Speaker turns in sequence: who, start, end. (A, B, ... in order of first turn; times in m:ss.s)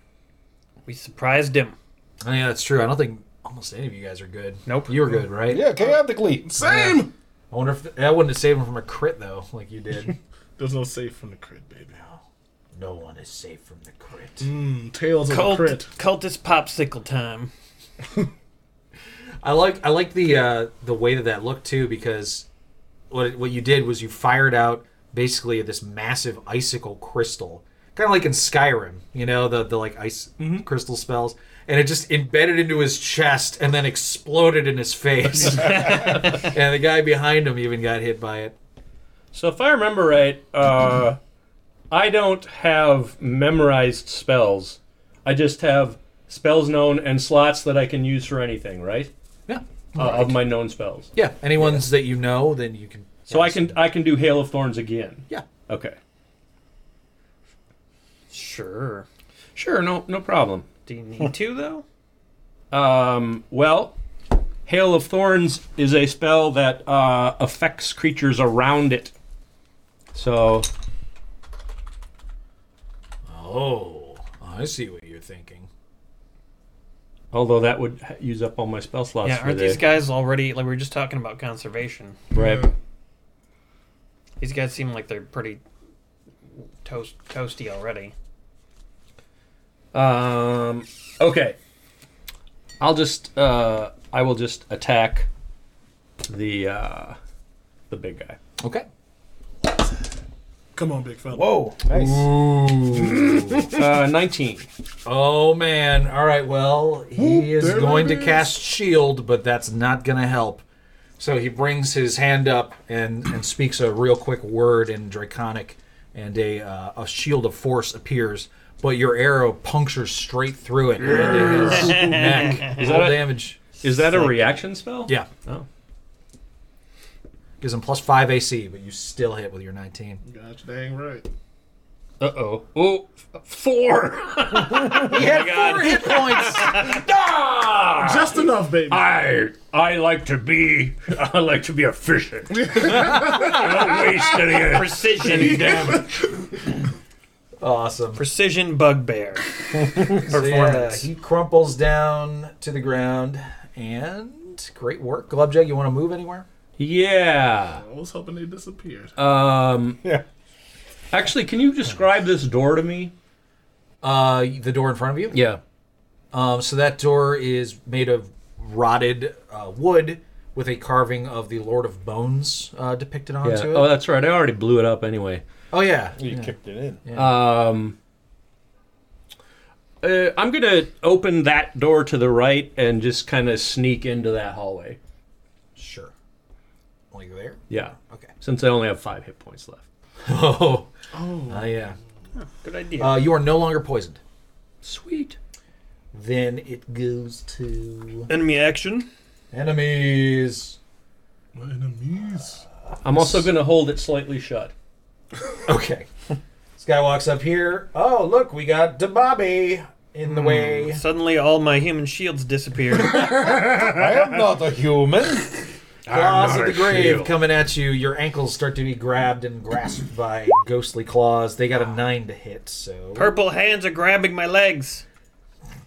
0:00.8-0:01.7 A
0:02.2-0:05.8 B
0:04.6-0:05.0 A
0:05.5-0:06.5 C
0:06.4-0:07.1 D
0:06.6-0:10.2 B
0:10.6-0:12.0 D
0:12.0-0:12.2 B
0:12.8-0:14.5 B
0:14.4-0:15.9 D
0:15.3-0:17.5 A
0:19.4-0:22.5 B
0:23.1-0:38.5 B
0:30.4-0:30.7 D
0:35.4-0:36.5 A
0:39.3-0:41.2 E
0:41.9-0:49.1 E
0:49.5-0:50.4 B
0:50.0-0:51.1 E
0:51.1-0:53.8 B
0:53.3-0:56.0 E
0:58.3-0:59.0 A
0:59.6-1:00.7 E
1:00.8-1:01.8 A
1:02.7-1:04.0 E
1:04.6-1:09.1 E
1:10.1-1:10.7 E
1:13.2-1:15.7 B
1:17.3-1:19.8 E
1:19.2-1:22.2 A
1:22.3-1:22.7 E
1:22.3-1:22.7 D
1:24.4-1:25.6 A
1:26.8-1:28.1 A
1:29.9-1:31.6 E
1:32.8-1:35.3 E
1:36.3-1:37.2 E
1:37.9-1:38.4 E
1:38.6-1:38.8 B
1:40.7-1:41.6 D
1:41.3-1:42.3 C
1:41.9-1:43.7 B
1:43.6-1:44.7 E
1:45.0-1:50.6 B
1:47.2-1:48.5 D
1:51.2-2:04.5 B
2:01.0-2:05.6 E
2:01.7-2:02.8 A
2:07.6-2:10.2 B
2:10.2-2:11.3 D
2:12.2-2:26.0 E
2:15.0-2:17.0 A
2:15.0-2:16.9 B
2:18.0-2:19.0 D
2:22.6-2:24.0 D
2:24.6-2:26.1 A
2:25.4-2:26.0 D
2:27.6-2:28.2 B
2:28.2-2:31.1 A
2:30.2-2:36.4 B
2:36.8-2:37.8 E
2:37.8-2:39.1 D
2:39.2-2:40.0 E
2:41.1-2:43.1 E
2:44.0-2:45.4 B
2:45.3-2:45.6 E
2:46.3-2:53.9 B
2:53.4-2:55.4 E
2:55.7-2:57.4 B
2:56.2-2:57.0 C
2:57.1-2:58.0 E
3:00.0-3:05.0 E
3:05.8-3:06.1 B
3:07.1-3:08.3 B
3:07.7-3:09.8 E
3:10.2-3:10.9 B
3:11.1-3:11.7 D
3:11.5-3:12.0 B
3:12.4-3:13.2 A
3:13.0-3:14.2 B
3:14.8-3:15.4 E
3:16.1-3:18.3 B
3:18.3-3:19.1 A
3:19.5-3:20.8 B
3:21.5-3:22.6 D
3:23.0-3:24.7 E
3:25.6-3:26.1 B
3:26.8-3:31.0 B
3:30.4-3:33.6 A
3:33.1-3:34.4 E
3:33.7-3:35.7 C
3:36.0-3:37.3 E
3:36.1-3:43.3 B
3:43.1-3:45.0 A